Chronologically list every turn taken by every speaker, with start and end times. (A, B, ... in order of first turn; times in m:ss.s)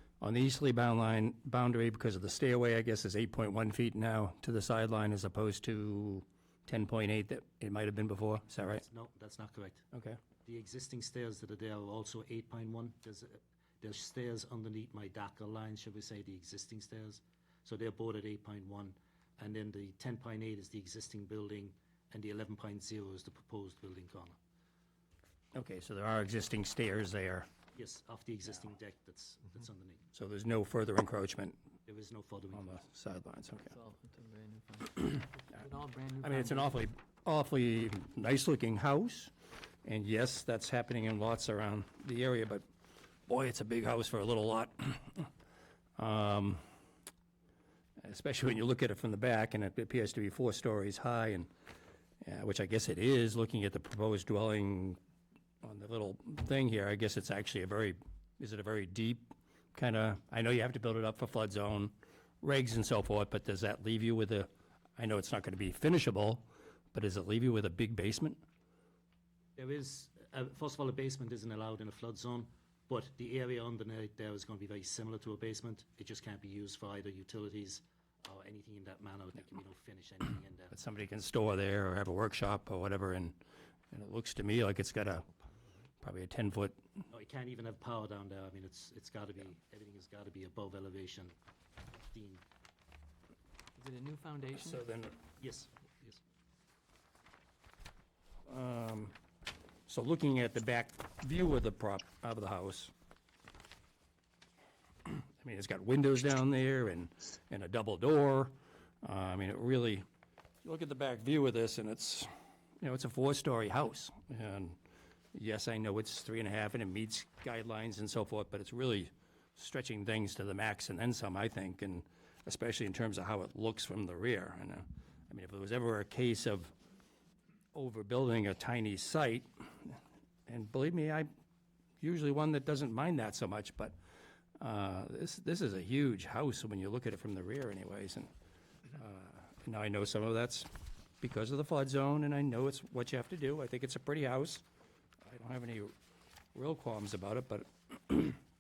0:00.2-0:08.8 A
0:08.8-0:09.8 B
0:09.9-0:10.2 A
0:10.4-0:24.4 B
0:25.5-0:27.5 A
0:27.8-0:30.0 B
0:30.1-0:31.6 A
0:31.9-0:32.8 B
0:32.5-0:33.7 A
0:33.7-0:36.9 C
0:36.2-0:39.3 A
0:39.8-0:42.6 A
0:43.3-0:45.3 A
0:46.0-0:46.6 A
0:48.0-0:51.5 A
0:52.2-0:55.0 A
0:55.6-1:08.4 A
1:09.6-1:20.7 B
1:20.7-1:23.4 A
1:23.9-1:25.3 A
1:26.0-1:26.8 A
1:27.1-1:31.3 B
1:31.9-1:32.4 B
1:33.8-1:34.8 C
1:34.6-1:35.2 A
1:35.4-1:36.2 B
1:38.5-1:39.2 A
1:39.9-1:42.9 A
1:45.0-1:50.1 A
1:50.6-1:54.8 A
1:55.3-2:06.7 A
2:07.7-2:11.3 A
2:12.0-2:14.0 A
2:14.6-2:18.3 A
2:18.9-2:24.6 A
2:25.2-2:25.9 A
2:26.6-2:28.4 A